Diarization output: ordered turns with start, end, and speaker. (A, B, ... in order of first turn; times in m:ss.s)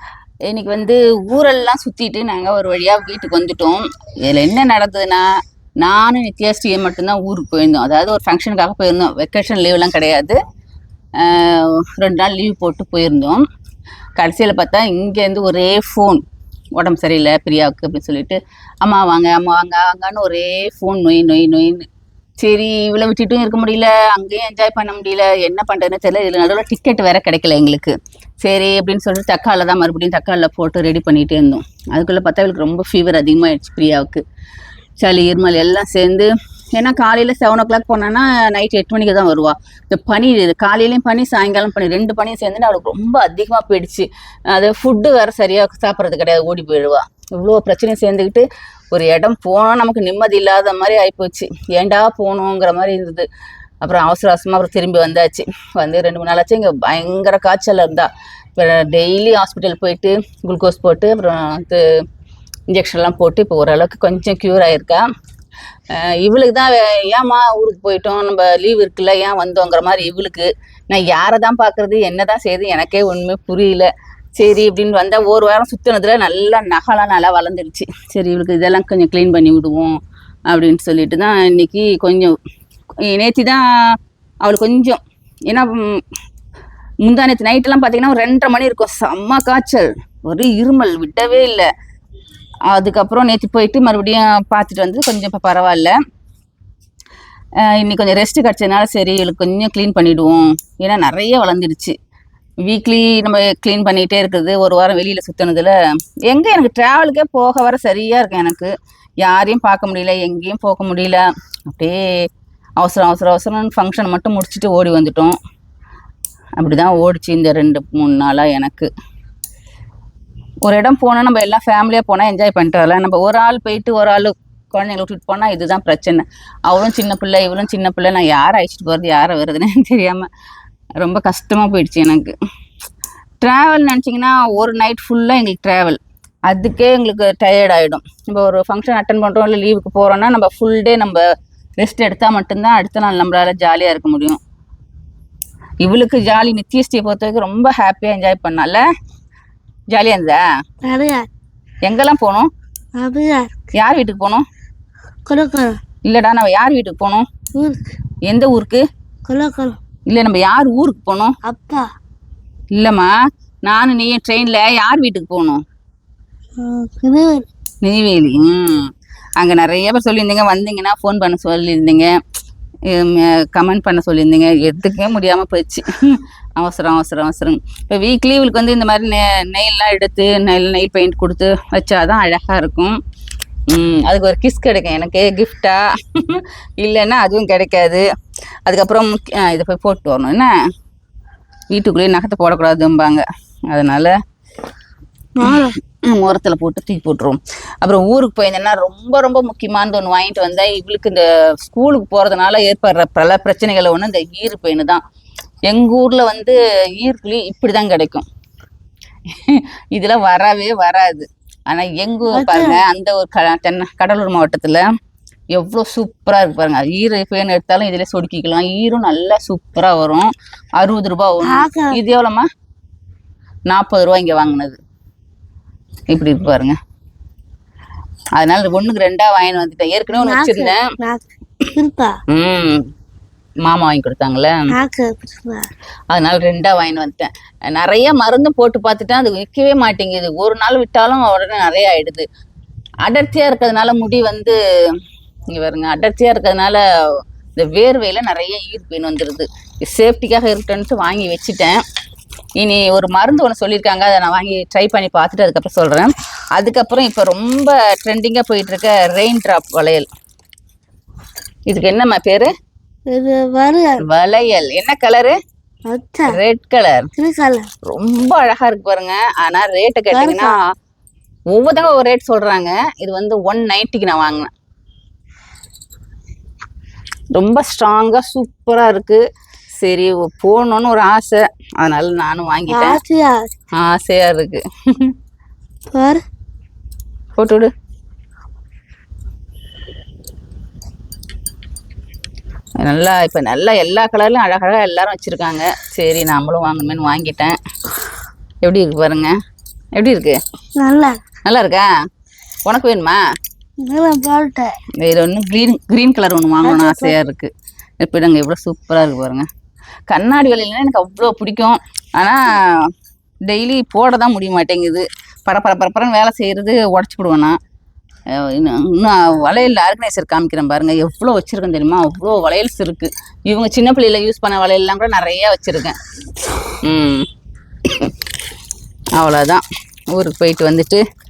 0:00.5-0:05.2 A
0:05.8-0:10.4 A
0:11.2-0:13.4 A
0:14.2-0:16.2 A
0:16.8-0:21.9 A
0:22.4-0:34.2 A
0:35.0-0:53.3 A
0:53.8-1:01.8 A
1:02.7-1:05.0 A
1:05.9-1:20.0 A
1:20.5-1:22.3 A
1:23.1-1:23.6 A
1:24.4-1:26.0 A
1:27.0-1:31.7 A
1:32.7-1:35.9 A
1:37.6-1:41.9 A
1:42.7-1:45.7 A
1:46.3-1:48.7 A
1:49.2-1:52.0 A
1:52.8-1:55.3 A
1:56.6-1:58.9 A
2:00.6-2:10.3 A
2:11.0-2:12.3 A
2:13.4-2:21.2 A
2:21.8-2:24.4 A
2:25.8-2:28.8 A
2:29.9-2:30.4 A
2:30.8-2:31.2 B
2:31.8-2:32.5 A
2:33.0-2:33.5 B
2:33.8-2:34.4 A
2:35.3-2:35.8 B
2:36.1-2:37.3 A
2:37.6-2:37.9 B
2:38.2-2:38.8 A
2:39.3-2:39.8 B
2:40.1-2:41.3 A
2:41.4-2:41.8 B
2:42.7-2:43.1 A
2:43.6-2:45.6 A
2:46.6-2:47.5 B
2:47.8-2:52.1 A
2:52.9-3:03.0 A
3:03.7-3:08.0 A
3:08.6-3:10.5 A
3:11.7-3:14.1 A
3:15.4-3:15.7 B
3:15.4-3:25.0 A
3:25.7-3:28.2 A
3:29.3-3:34.8 A
3:32.3-3:32.8 B
3:35.5-3:42.5 A
3:41.4-3:42.0 B
3:43.7-3:44.8 A
3:46.1-3:46.8 A
3:48.4-3:50.8 A
3:50.1-3:52.2 B
3:52.3-3:52.8 A
3:53.6-3:54.6 A
3:54.7-3:55.7 B
3:56.1-4:02.2 A
4:03.0-4:04.6 A
4:05.5-4:06.8 A
4:07.6-4:11.8 A
4:12.6-4:20.1 A
4:21.7-4:22.5 A
4:23.1-4:24.0 B
4:24.0-4:25.4 A
4:25.9-4:26.4 B
4:26.3-4:27.1 A
4:27.2-4:27.7 B
4:27.9-4:30.6 A
4:30.1-4:30.5 B
4:31.5-4:34.5 A
4:37.3-4:39.2 A
4:39.8-4:43.0 A
4:42.7-4:43.5 B
4:43.8-4:45.1 A
4:45.9-4:46.2 B
4:47.4-4:47.7 A
4:52.8-4:57.6 A
4:58.6-4:59.3 A
5:00.0-5:00.4 A
5:00.8-5:01.2 B
5:01.4-5:01.9 A
5:02.6-5:03.2 A
5:03.8-5:04.7 B
5:05.0-5:07.5 A
5:06.6-5:07.2 B
5:08.0-5:09.5 A
5:10.1-5:12.9 A
5:13.5-5:17.5 A
5:18.4-5:26.0 A
5:26.8-5:27.2 A
5:29.2-5:29.6 A
5:30.1-5:31.0 A